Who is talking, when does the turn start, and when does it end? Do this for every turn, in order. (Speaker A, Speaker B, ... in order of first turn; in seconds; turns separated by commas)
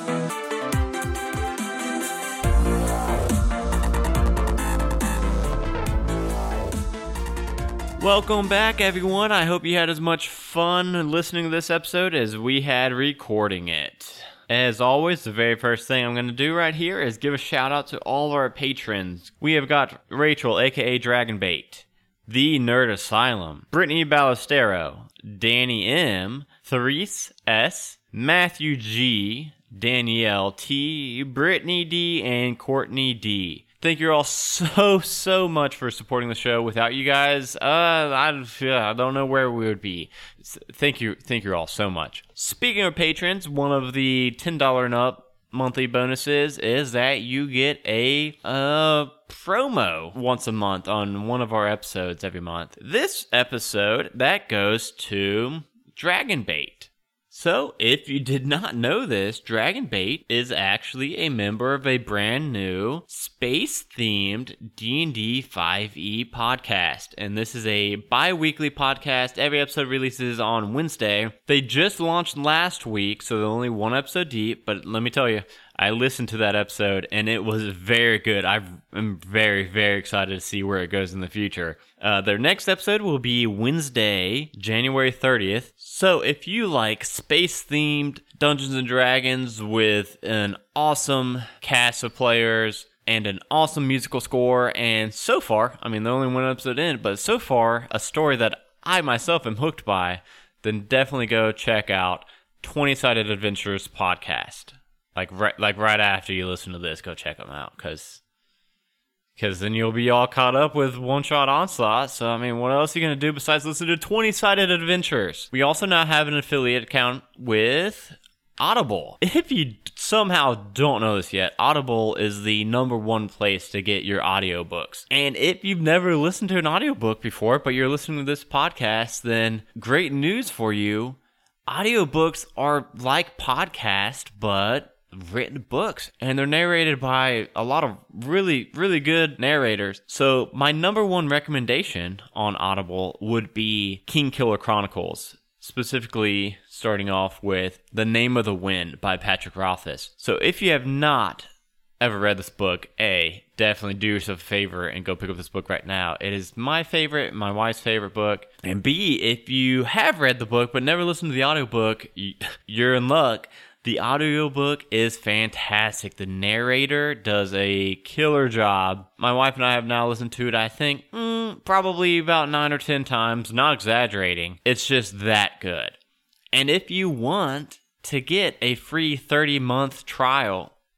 Speaker A: 8.0-108.2, Speaker A: 109.4-151.5, Speaker A: 152.0-176.0, Speaker A: 176.5-180.7